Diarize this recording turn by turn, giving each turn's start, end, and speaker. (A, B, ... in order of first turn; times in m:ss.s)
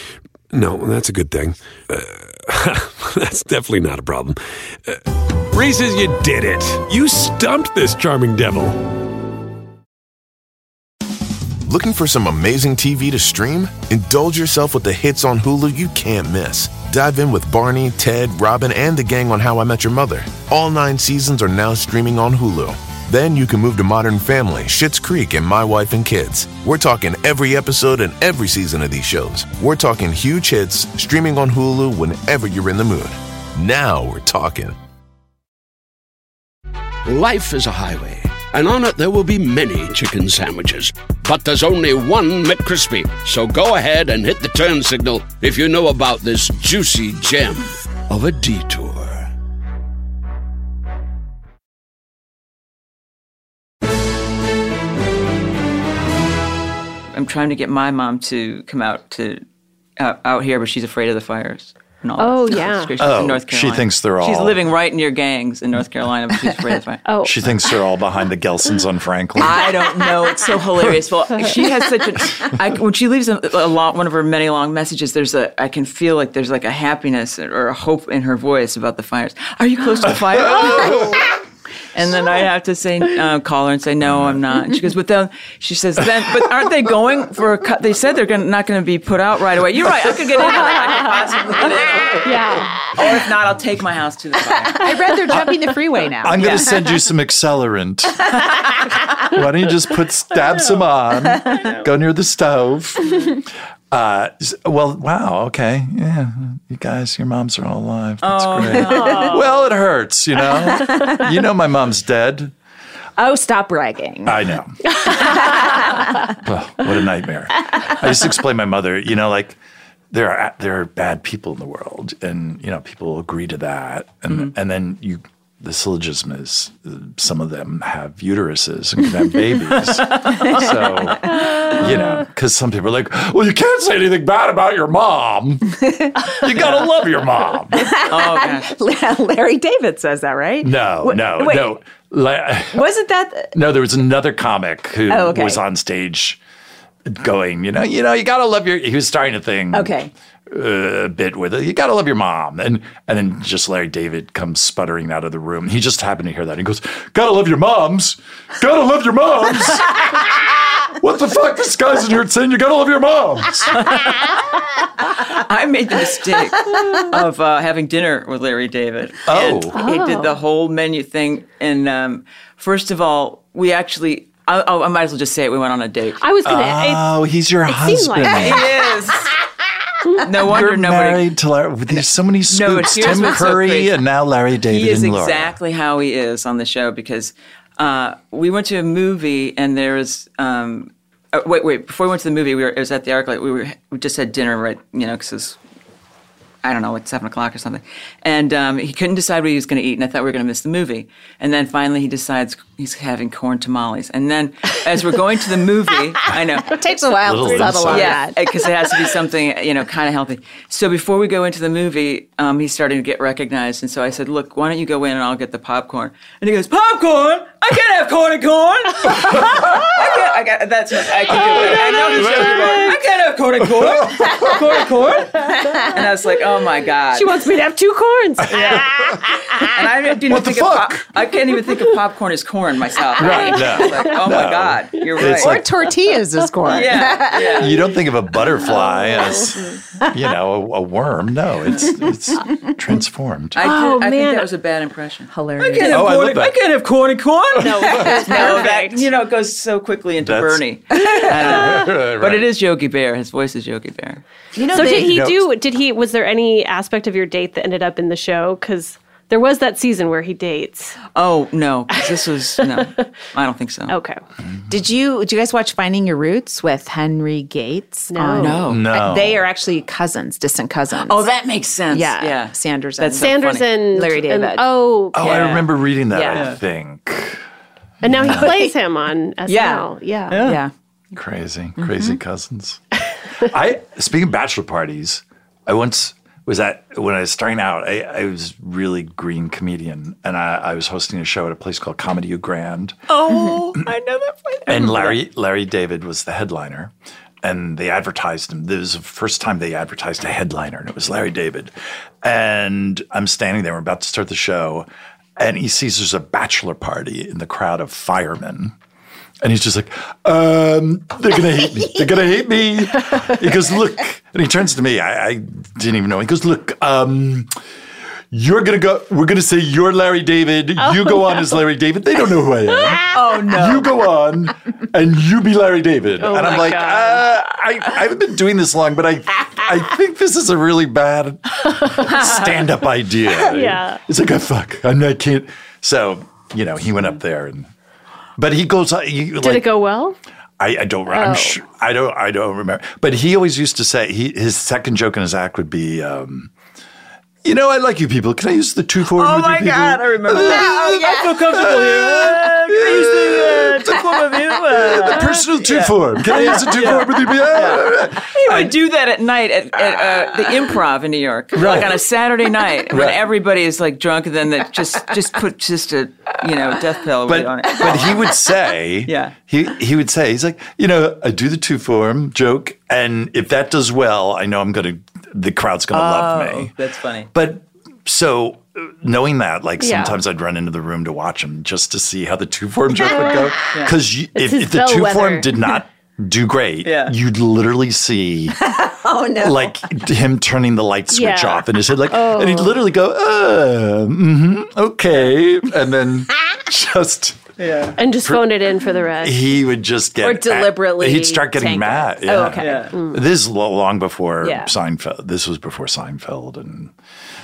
0:00.5-0:08.8 A
0:11.6-0:34.8 B
0:37.0-0:49.3 C
0:57.1-0:59.4 D
1:00.0-1:07.0 D
1:02.2-1:02.9 E
1:03.0-1:04.6 F
1:07.0-1:07.4 E
1:07.2-1:09.8 F
1:09.4-1:21.3 D
1:20.5-1:21.0 F
1:21.9-1:35.2 D
1:24.0-1:24.4 F
1:30.7-1:31.0 E
1:32.2-1:32.9 E
1:34.7-1:36.9 G
1:36.2-1:38.4 F
1:36.4-1:36.7 D
1:39.2-1:43.4 F
1:43.9-1:52.5 F
1:48.2-1:49.4 D
1:48.9-1:49.4 E
1:50.7-1:51.2 G
1:53.2-1:54.4 G
1:54.2-1:54.8 F
1:55.0-1:56.4 G
1:55.0-1:55.5 E
1:56.4-1:59.6 F
2:00.1-2:15.8 F
2:09.9-2:10.6 D
2:10.3-2:10.7 G
2:15.8-2:16.1 G
2:16.3-2:17.9 F
2:17.7-2:21.7 G
2:18.0-2:18.7 D
2:20.6-2:22.8 F
2:22.7-2:23.6 G
2:23.5-2:26.4 F
2:25.1-2:25.6 G
2:27.0-2:29.9 F
2:29.7-2:30.1 G
2:30.5-2:43.8 F
2:43.7-2:44.3 D
2:45.1-2:56.2 D
2:49.2-2:49.8 F
2:49.7-2:50.3 E
2:56.2-2:57.1 E
2:56.4-2:58.7 F
2:57.6-2:58.6 E
2:58.3-2:59.3 D
3:00.2-3:01.3 D
3:00.4-3:05.5 F
3:01.9-3:04.0 D
3:04.7-3:15.6 D
3:16.6-3:26.8 D
3:26.6-3:28.7 G
3:27.2-3:28.3 F
3:27.5-3:47.4 D
3:39.3-3:39.7 F
3:41.3-3:42.9 F
3:41.4-3:43.0 E
3:43.6-3:44.6 F
3:47.1-3:48.9 E
3:48.4-3:49.5 F
3:48.6-3:48.9 D
3:49.6-3:55.6 D
3:50.3-3:51.1 F
3:53.2-3:55.6 F
3:53.2-3:53.8 E
3:55.2-3:57.7 G
3:56.6-3:57.8 D
3:57.5-4:03.6 F
3:59.0-3:59.4 E
4:03.5-4:14.2 D
4:03.6-4:04.5 E
4:05.3-4:06.2 G
4:05.8-4:06.6 F
4:07.6-4:08.7 E
4:07.6-4:09.0 G
4:10.2-4:12.5 F
4:14.5-4:15.2 G
4:14.7-4:21.0 E
4:14.7-4:15.5 F
4:21.1-4:23.9 D
4:22.6-4:22.9 E
4:23.9-4:24.2 E
4:24.7-4:31.2 G
4:28.1-4:28.6 E
4:28.4-4:28.9 D
4:28.7-4:29.4 F
4:31.0-4:33.7 D
4:31.9-4:34.7 G
4:33.2-4:35.5 E
4:35.1-4:37.4 F
4:35.2-4:35.7 D
4:36.1-4:36.5 G
4:36.3-4:36.6 D
4:38.0-4:38.5 F
4:38.0-4:40.5 E
4:38.3-4:38.7 G
4:39.5-4:40.7 G
4:40.3-4:40.6 D
4:41.1-4:42.8 F
4:43.4-4:53.0 F
4:53.1-4:55.2 D
4:54.7-5:04.8 F
5:05.4-5:08.7 F
5:09.4-5:17.5 F
5:18.3-5:37.7 F
5:20.8-5:21.6 E
5:22.7-5:23.0 E
5:23.1-5:23.9 D
5:26.2-5:27.2 E
5:32.1-5:32.4 D
5:33.3-5:34.0 E
5:38.4-5:39.7 F
5:39.4-5:40.2 E
5:40.6-5:46.5 F
5:41.1-5:41.6 E
5:47.4-5:58.8 F
5:49.1-6:08.4 D
5:50.4-5:51.2 G
6:01.5-6:02.0 F
6:02.9-6:03.2 F
6:07.2-6:16.7 F
6:09.1-6:09.3 D
6:15.9-6:17.3 D
6:17.3-6:28.6 F
6:19.8-6:20.2 E
6:24.3-6:25.5 E
6:26.8-6:27.1 D
6:28.6-6:29.7 G
6:29.4-6:37.4 F
6:31.1-6:32.8 E
6:37.6-6:38.0 D
6:38.0-6:39.5 E
6:38.1-6:38.5 F
6:39.2-6:46.9 F
6:40.2-6:42.9 G
6:42.6-6:43.0 D
6:44.4-6:44.7 G